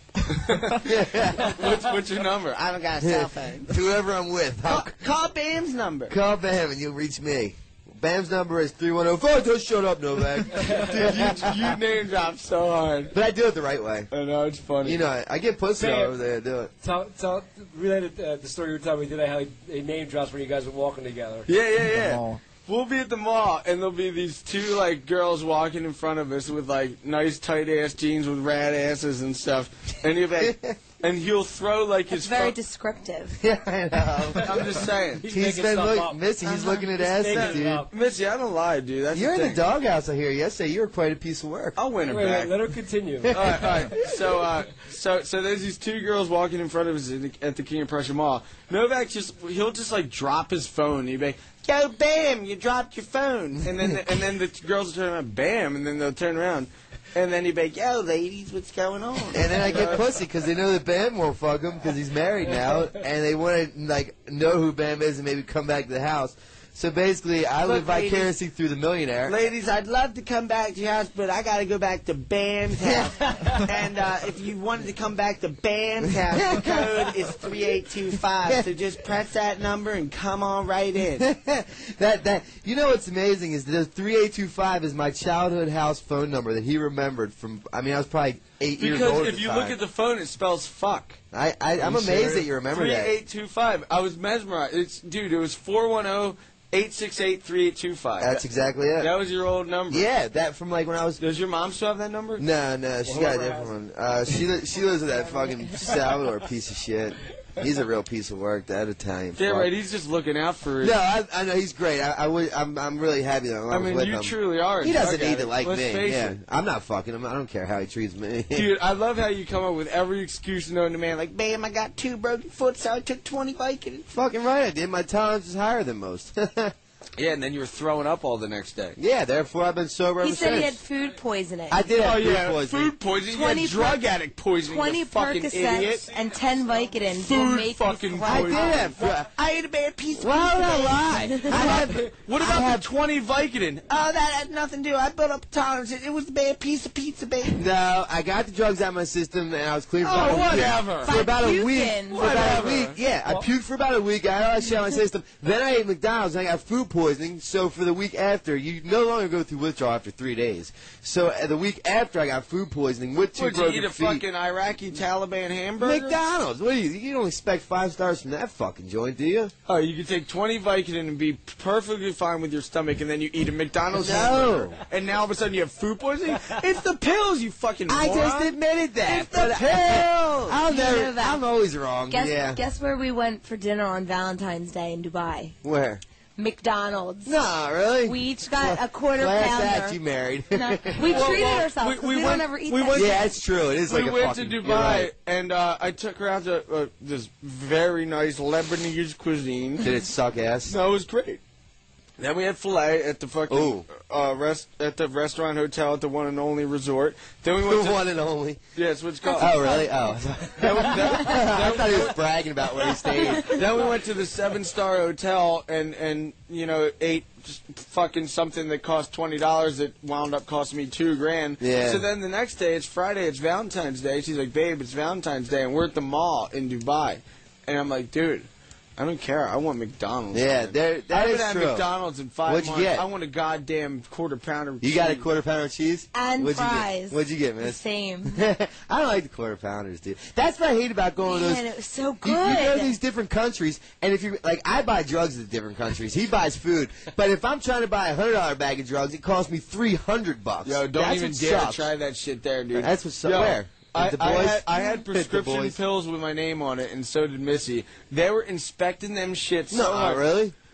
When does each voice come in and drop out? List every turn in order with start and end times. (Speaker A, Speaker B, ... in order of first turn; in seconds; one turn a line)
Speaker A: 0.3-2.6
Speaker B: 0.7-1.7
Speaker C: 2.5-3.7
Speaker B: 3.0-5.0
Speaker C: 4.7-6.1
Speaker B: 6.1-11.8
Speaker A: 10.8-13.1
Speaker B: 13.1-14.1
Speaker A: 14.1-15.0
Speaker B: 14.8-16.7
Speaker D: 15.8-16.1
Speaker D: 16.8-21.5
Speaker A: 21.5-32.6
Speaker B: 30.4-30.8
Speaker E: 32.1-33.4
Speaker B: 33.4-37.9
Speaker A: 34.4-35.2
Speaker D: 35.2-37.9
Speaker A: 37.3-39.6
Speaker B: 39.1-41.8
Speaker A: 41.8-42.5
Speaker D: 42.1-43.4
Speaker B: 43.3-43.8
Speaker A: 43.3-51.6
Speaker C: 51.6-53.6
Speaker A: 53.6-57.6
Speaker C: 57.6-59.5
Speaker B: 59.3-69.4
Speaker A: 59.6-60.0
Speaker C: 67.6-68.3
Speaker C: 69.3-81.2
Speaker B: 72.8-73.6
Speaker B: 76.3-77.1
Speaker B: 81.2-89.8
Speaker A: 88.8-91.2
Speaker B: 91.3-93.1
Speaker A: 91.8-98.4
Speaker B: 98.2-99.1
Speaker A: 99.0-100.1
Speaker B: 99.9-101.2
Speaker A: 101.2-102.5
Speaker B: 102.4-109.7
Speaker D: 103.1-103.7
Speaker A: 109.4-111.0
Speaker B: 110.8-118.7
Speaker A: 113.7-116.4
Speaker A: 118.5-121.2
Speaker C: 121.1-124.1
Speaker B: 124.1-126.7
Speaker A: 127.2-129.0
Speaker B: 129.0-130.8
Speaker E: 130.2-131.9
Speaker B: 131.7-132.9
Speaker A: 132.0-136.1
Speaker E: 133.2-134.0
Speaker E: 134.6-138.9
Speaker A: 137.2-139.0
Speaker B: 138.3-139.3
Speaker C: 139.2-140.9
Speaker B: 140.2-142.9
Speaker E: 140.8-141.7
Speaker A: 141.5-143.9
Speaker C: 143.9-147.6
Speaker B: 147.6-164.2
Speaker A: 150.0-151.1
Speaker E: 150.9-152.5
Speaker A: 152.1-153.0
Speaker A: 163.3-166.2
Speaker B: 165.8-169.5
Speaker A: 169.7-178.5
Speaker B: 173.9-174.8
Speaker B: 177.9-182.6
Speaker E: 179.2-179.7
Speaker A: 179.3-180.0
Speaker E: 180.6-181.4
Speaker E: 182.1-185.6
Speaker B: 185.6-186.0
Speaker E: 186.4-187.4
Speaker B: 187.2-191.6
Speaker E: 188.0-190.0
Speaker E: 190.5-193.2
Speaker A: 191.0-193.3
Speaker B: 192.9-195.1
Speaker A: 193.9-199.9
Speaker B: 199.8-200.8
Speaker A: 200.7-201.4
Speaker A: 202.2-208.0
Speaker B: 203.5-203.8
Speaker B: 207.6-208.6
Speaker A: 208.8-209.8
Speaker E: 209.2-209.9
Speaker B: 209.4-213.6
Speaker A: 210.6-212.2
Speaker A: 213.4-235.2
Speaker B: 221.6-222.1
Speaker B: 230.3-231.8
Speaker B: 232.5-233.1
Speaker B: 234.8-241.7
Speaker E: 236.1-238.4
Speaker E: 241.2-243.0
Speaker B: 242.2-251.9
Speaker A: 250.7-260.2
Speaker B: 252.7-255.8
Speaker B: 259.7-260.6